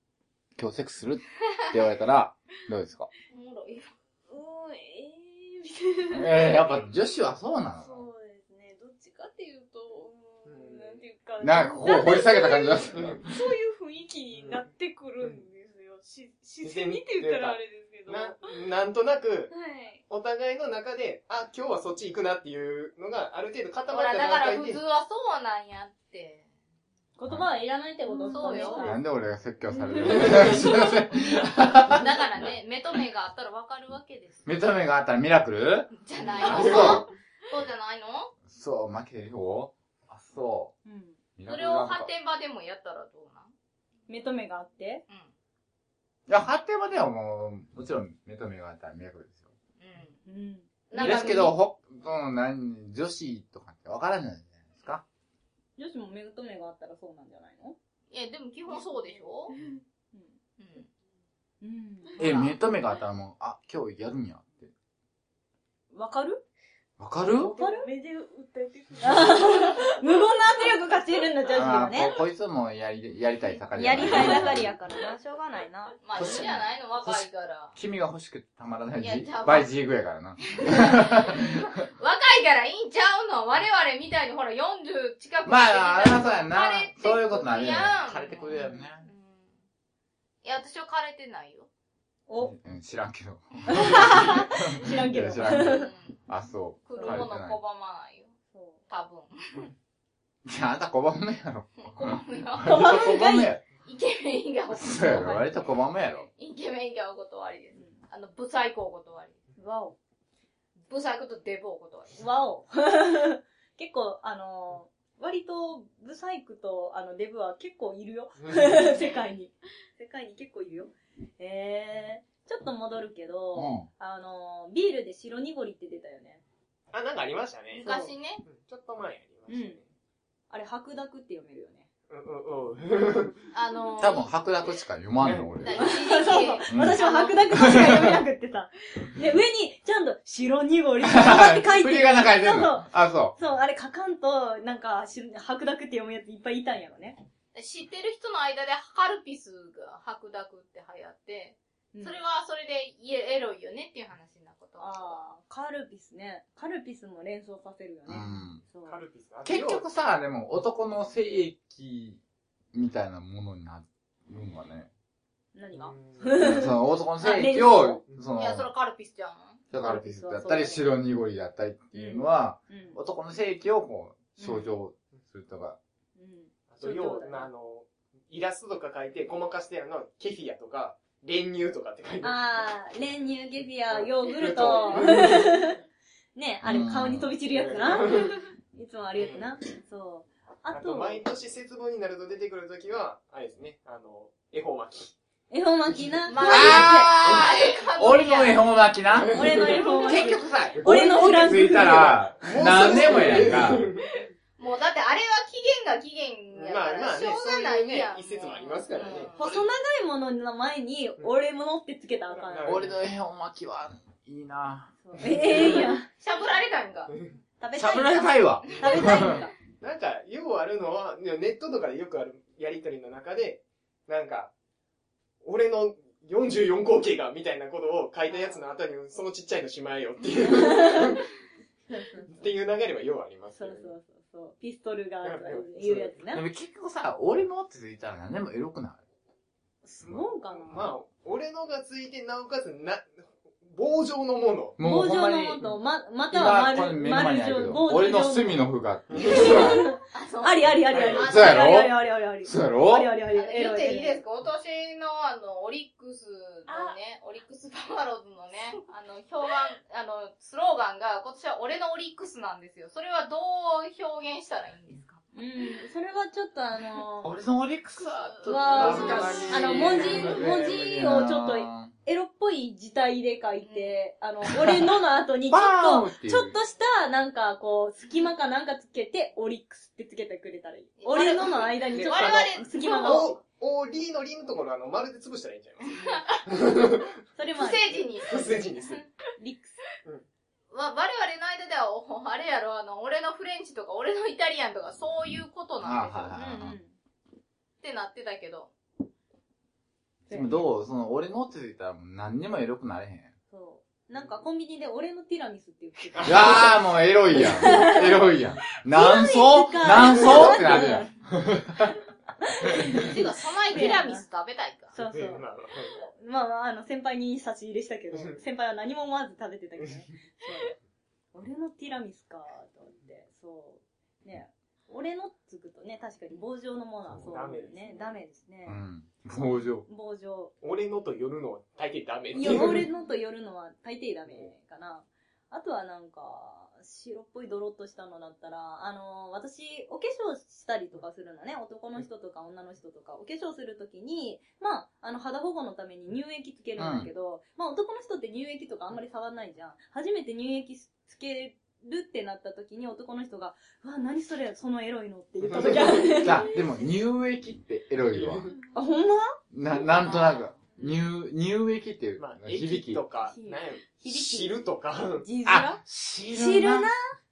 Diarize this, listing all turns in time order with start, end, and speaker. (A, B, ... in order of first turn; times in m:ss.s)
0:00.6-0:03.1 A
0:03.3-0:03.9 B
0:04.3-0:06.6 C
0:06.1-0:08.0 A
0:07.8-0:18.4 C
0:10.4-0:11.0 D
0:11.4-0:13.3 A
0:12.9-0:13.2 D
0:14.4-0:14.6 D
0:16.6-0:19.5 D
0:19.5-0:20.0 C
0:20.1-0:24.8 D
0:23.9-0:26.4 B
0:27.2-0:29.0 E
0:28.1-0:28.8 C
0:28.3-0:28.9 B
0:28.8-0:32.1 A
0:29.9-0:30.6 E
0:30.1-0:30.6 D
0:31.9-0:34.4 B
0:34.4-0:37.1 A
0:35.9-0:38.3 B
0:38.4-0:40.7 A
0:40.8-0:41.2 E
0:41.4-0:42.1 A
0:41.5-0:43.5 B
0:44.1-0:45.0 E
0:46.3-0:49.5 A
0:49.8-0:50.2 B
0:50.2-0:51.1 E
0:50.9-0:51.6 B
0:50.9-0:55.0 A
0:55.8-0:57.8 E
0:58.1-0:59.6 B
0:59.5-0:59.8 C
1:00.6-1:00.9 B
1:01.6-1:02.5 E
1:02.2-1:04.7 A
1:05.9-1:06.4 E
1:07.0-1:07.5 A
1:07.3-1:10.1 C
1:07.6-1:07.9 E
1:09.0-1:12.1 E
1:11.5-1:14.6 A
1:13.7-1:16.0 E
1:16.0-1:17.7 B
1:16.2-1:21.7 A
1:19.0-1:19.7 B
1:20.5-1:29.6 B
1:25.4-1:29.1 A
1:30.4-1:31.7 B
1:32.3-1:32.5 E
1:32.4-1:37.6 A
1:33.7-1:35.9 E
1:35.5-1:36.2 B
1:36.8-1:38.3 B
1:37.0-1:37.2 E
1:38.5-1:38.8 E
1:38.9-1:39.7 B
1:40.4-1:43.6 A
1:41.8-1:43.0 B
1:42.6-1:43.5 E
1:43.8-1:45.4 B
1:44.7-1:46.3 A
1:44.9-1:45.4 E
1:46.3-1:49.4 B
1:49.6-1:50.0 E
1:50.9-1:52.2 B
1:52.2-2:06.4 E
1:58.4-1:58.9 D
2:03.5-2:03.9 A
2:06.9-2:07.9 D
2:07.7-2:08.1 E
2:07.8-2:08.4 B
2:08.4-2:09.9 D
2:09.5-2:09.8 E
2:10.5-2:11.9 E
2:12.1-2:13.4 D
2:13.5-2:14.3 B
2:14.0-2:15.8 A
2:15.2-2:15.6 D
2:15.6-2:17.7 B
2:15.8-2:27.2 E
2:16.7-2:18.2 A
2:21.0-2:23.3 A
2:27.5-2:35.2 B
2:31.9-2:32.2 E
2:34.8-2:39.0 E
2:38.1-2:38.6 A
2:38.8-2:39.8 D
2:39.4-2:42.2 A
2:42.7-2:44.9 A
2:45.5-2:48.0 E
2:45.7-2:46.4 D
2:46.3-2:48.7 A
2:48.4-2:49.6 B
2:49.7-2:55.8 A
2:49.8-2:50.8 E
2:51.9-2:53.0 E
2:54.4-2:54.6 E
2:56.2-2:57.5 E
2:56.7-3:02.4 D
3:02.2-3:05.8 E
3:03.9-3:05.7 D
3:06.3-3:11.2 E
3:06.6-3:07.3 A
3:07.5-3:08.4 D
3:09.2-3:09.5 D
3:10.7-3:15.2 D
3:15.5-3:17.2 E
3:16.3-3:18.7 B
3:16.4-3:23.9 A
3:17.2-3:17.5 D
3:19.1-3:20.1 D
3:19.3-3:22.2 E
3:20.8-3:24.2 D
3:24.6-3:29.5 B
3:26.5-3:29.3 D
3:29.4-3:32.8 E
3:32.3-3:33.0 D
3:32.6-3:35.7 A
3:35.0-3:36.1 E
3:36.2-3:37.1 B
3:37.6-3:39.5 E
3:37.7-3:39.4 A
3:39.8-3:44.5 D
3:45.4-3:51.3 D
3:50.5-3:51.0 E
3:51.9-3:52.4 E
3:52.2-3:53.9 D
3:53.5-3:56.4 E
3:55.2-3:56.1 D
3:56.3-3:59.0 A
3:59.8-4:01.0 E
4:00.0-4:04.8 D
4:04.8-4:05.7 A
4:04.8-4:08.6 E
4:06.3-4:09.8 A
4:09.1-4:09.8 D
4:09.2-4:14.2 E
4:10.1-4:11.7 B
4:10.9-4:11.4 D
4:11.2-4:13.1 A
4:13.3-4:25.2 B
4:25.3-4:27.3 E
4:27.2-4:31.9 A
4:28.2-4:30.2 B
4:28.4-4:43.4 E
4:28.8-4:30.8 D
4:33.6-4:33.9 B
4:34.5-4:34.9 A
4:35.5-4:36.5 A
4:41.0-4:43.2 B
4:41.9-4:47.1 D
4:45.9-4:46.4 B
4:46.0-4:46.2 E
4:47.3-4:48.5 E
4:47.6-4:49.0 B
4:48.2-4:49.0 D
4:49.4-4:49.8 E
4:50.7-4:56.3 B
4:55.8-4:56.8 A
4:56.3-4:56.9 E
4:57.8-4:58.7 B
5:00.3-5:00.6 E
5:00.3-5:03.3 A
5:03.5-5:06.7 E
5:06.1-5:06.8 D
5:06.2-5:11.9 A
5:07.3-5:08.2 E
5:08.9-5:11.1 E
5:12.4-5:14.2 E
5:12.9-5:14.9 B
5:14.9-5:15.4 E
5:15.0-5:16.0 D
5:16.0-5:20.7 E
5:18.1-5:18.4 D
5:21.3-5:28.8 E
5:27.1-5:28.1 D
5:28.6-5:29.8 A
5:29.8-5:30.5 E
5:30.6-5:32.9 D
5:32.3-5:56.5 E
5:46.8-5:47.1 A
5:55.4-5:56.3 D
5:56.2-5:58.5 A
5:58.1-5:58.6 D
5:58.7-5:59.3 E
5:59.5-6:03.0 A
6:00.0-6:00.5 B
6:02.2-6:05.3 D
6:03.2-6:04.6 E
6:05.2-6:05.8 E
6:05.4-6:06.9 A
6:06.3-6:06.9 E